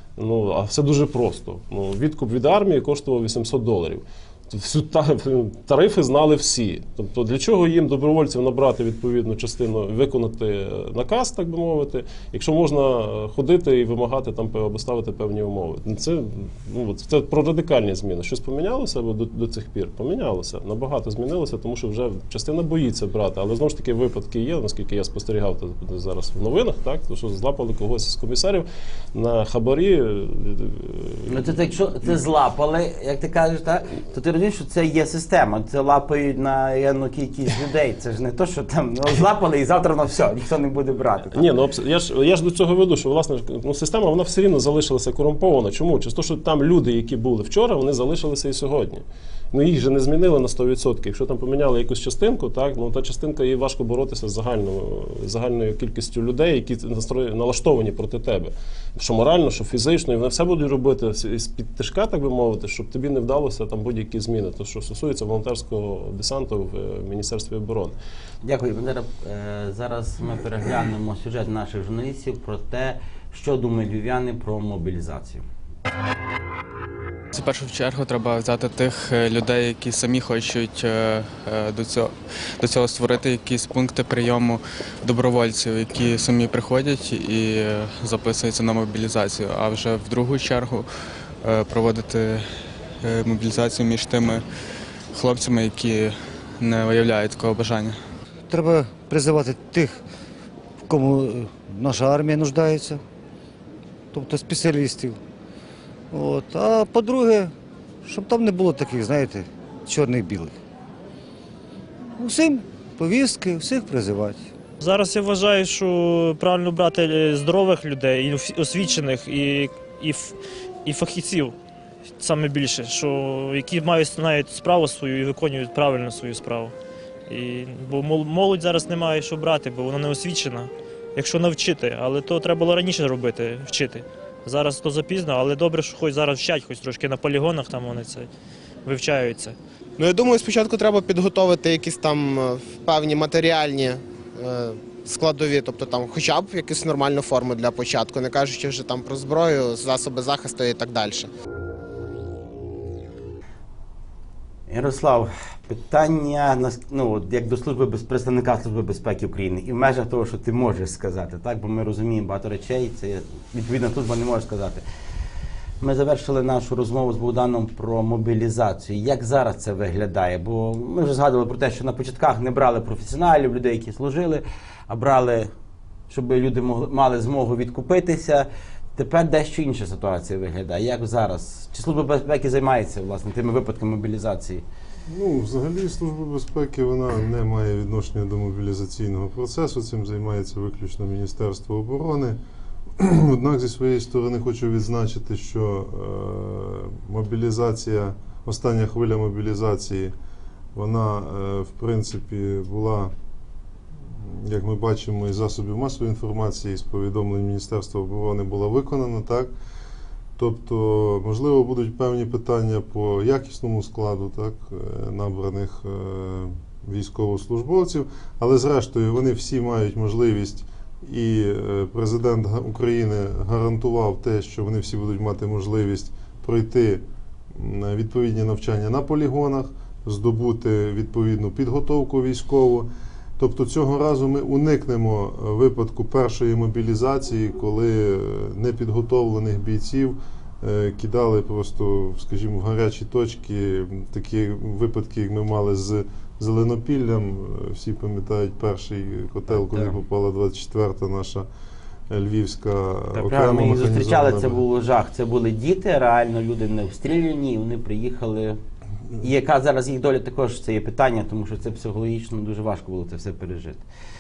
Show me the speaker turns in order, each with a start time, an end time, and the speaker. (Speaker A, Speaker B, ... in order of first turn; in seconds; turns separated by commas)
Speaker A: 0.2-31.6, Speaker B: 31.3-41.4, Speaker A: 41.3-68.0, Speaker B: 68.4-75.4, Speaker C: 77.3-90.9, Speaker C: 91.4-92.5, Speaker C: 93.0-94.4, Speaker C: 95.1-98.0, Speaker D: 98.5-100.0, Speaker D: 100.8-103.0, Speaker D: 104.1-105.2, Speaker D: 106.1-107.5, Speaker D: 108.0-110.6, Speaker D: 112.2-114.4, Speaker E: 114.8-121.6, Speaker E: 122.2-126.7, Speaker E: 127.3-138.3, Speaker E: 138.9-139.6, Speaker F: 140.0-151.3, Speaker B: 154.7-164.8, Speaker B: 165.8-175.5, Speaker B: 176.1-184.6, Speaker G: 185.1-192.4, Speaker G: 193.0-200.1, Speaker G: 200.8-203.1, Speaker G: 204.1-209.5, Speaker G: 210.4-251.5, Speaker B: 249.7-249.9, Speaker G: 252.1-254.6, Speaker B: 253.1-258.6, Speaker B: 259.2-263.8